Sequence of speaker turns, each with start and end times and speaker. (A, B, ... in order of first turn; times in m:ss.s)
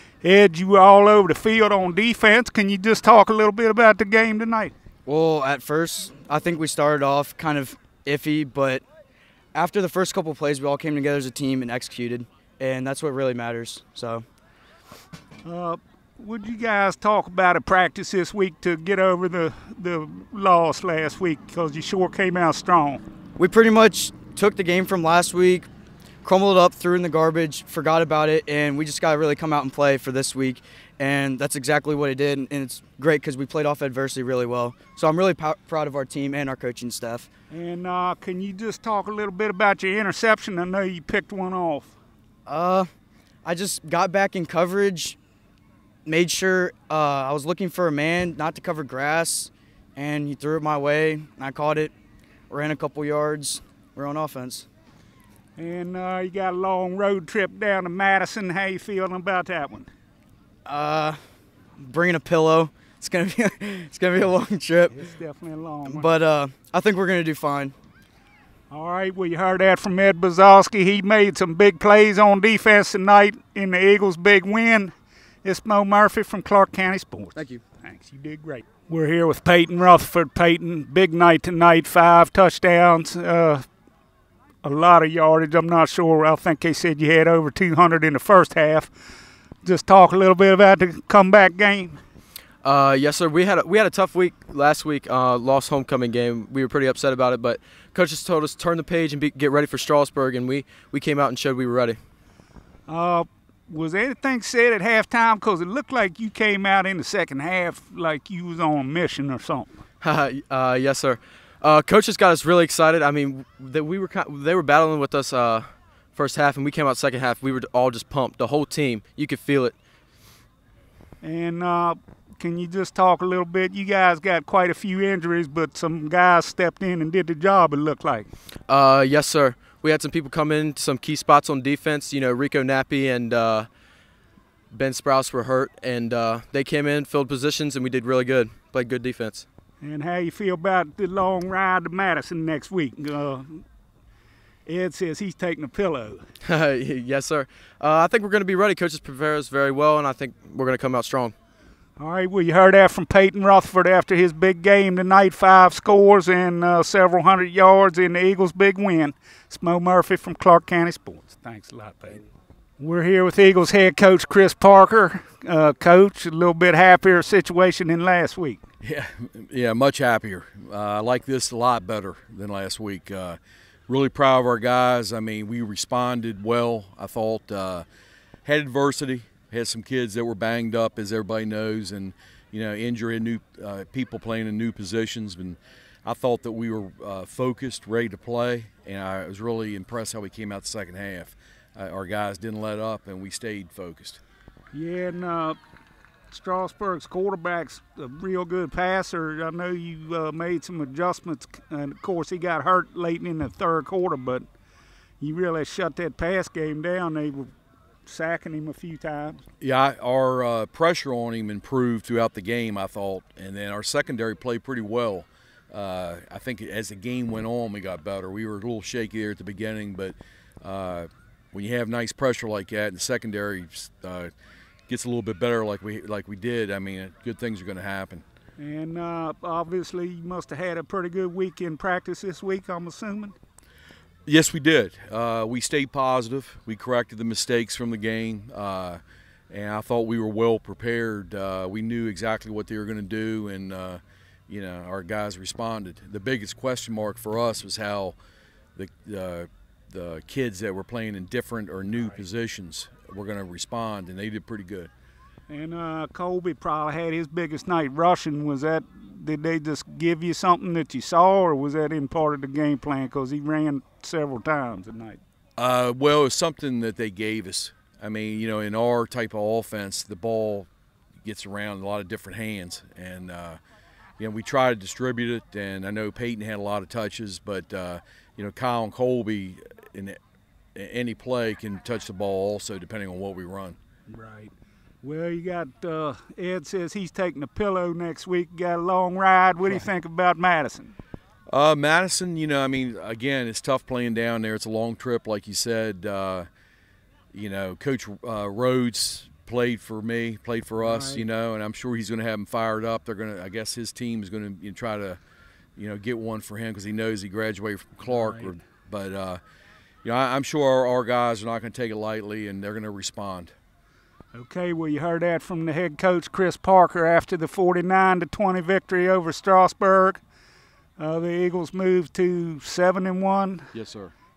0:00.2-0:04.7 A
0:05.1-0:08.8 B
0:09.5-0:14.2 B
0:15.4-0:23.0 A
0:23.4-0:25.7 B
0:26.2-0:37.3 B
0:37.5-0:41.9 A
0:42.4-0:42.9 B
0:43.4-0:45.2 B
0:46.0-0:51.9 B
0:52.5-0:54.7 B
0:55.6-0:59.9 A
1:00.6-1:01.2 B
1:01.8-1:05.0 B
1:04.9-1:06.1 A
1:05.9-1:07.7 B
1:08.7-1:23.6 A
1:24.6-1:28.9 A
1:29.6-1:32.0 A
1:32.6-1:42.0 C
1:42.9-1:49.7 A
1:50.0-1:59.7 C
2:01.2-2:08.3 A
2:08.7-2:13.7 C
2:14.7-2:19.4 C
2:19.8-2:23.6 A
2:24.6-2:26.2 A
2:26.4-2:31.3 C
2:32.0-2:42.2 A
2:42.8-2:48.6 A
2:48.8-2:57.8 D
2:58.4-3:14.2 D
3:14.7-3:15.6 A
3:16.3-3:24.4 A
3:25.2-3:27.5 A
3:28.0-3:29.4 A
3:29.6-3:44.3 D
3:44.9-3:48.2 D
3:48.6-3:53.3 A
3:54.2-4:08.2 D
4:08.8-4:14.9 D
4:15.5-4:25.2 A
4:25.6-4:30.7 D
4:31.2-4:33.6 D
4:34.2-4:40.2 D
4:40.7-4:43.8 D
4:44.1-4:50.9 A
4:51.5-4:56.5 D
4:57.3-5:05.2 D
5:00.8-5:01.2 A
5:05.8-5:09.4 D
5:08.1-5:08.6 A
5:10.0-5:13.5 D
5:14.3-5:20.2 A
5:21.0-5:23.7 A
5:23.7-5:24.1 D